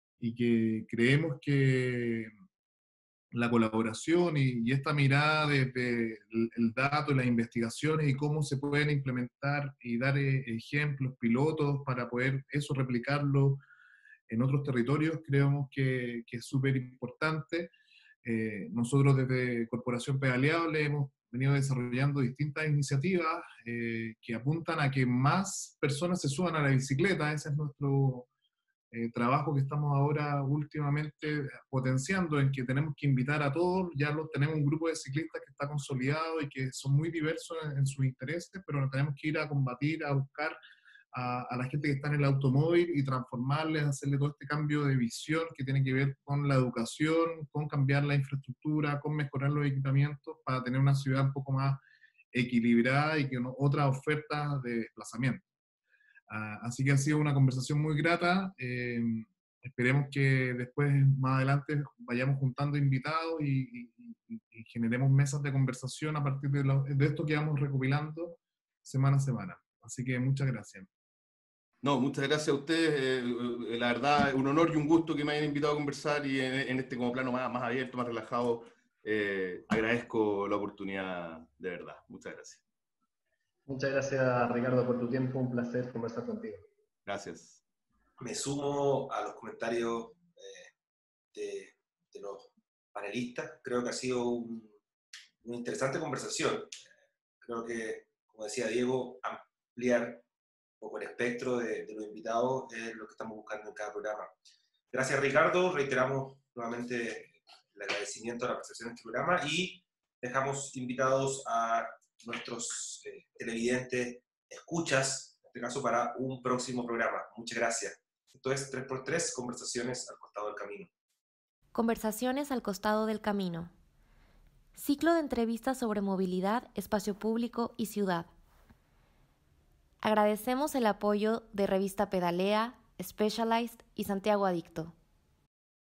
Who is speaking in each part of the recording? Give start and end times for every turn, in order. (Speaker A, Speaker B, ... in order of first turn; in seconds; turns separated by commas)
Speaker A: 0.2-2.3, Speaker A: 3.3-13.6, Speaker A: 14.3-17.7, Speaker A: 18.2-28.3, Speaker A: 28.9-40.6, Speaker A: 41.1-51.8, Speaker A: 52.3-55.4, Speaker A: 56.3-70.9, Speaker B: 71.8-82.6, Speaker C: 83.7-86.7, Speaker B: 87.1-87.6, Speaker D: 88.2-90.7, Speaker D: 91.3-94.8, Speaker D: 95.4-96.7, Speaker D: 97.4-100.2, Speaker D: 100.8-104.3, Speaker D: 104.9-120.9, Speaker E: 121.7-123.7, Speaker E: 124.8-128.3, Speaker E: 130.0-134.9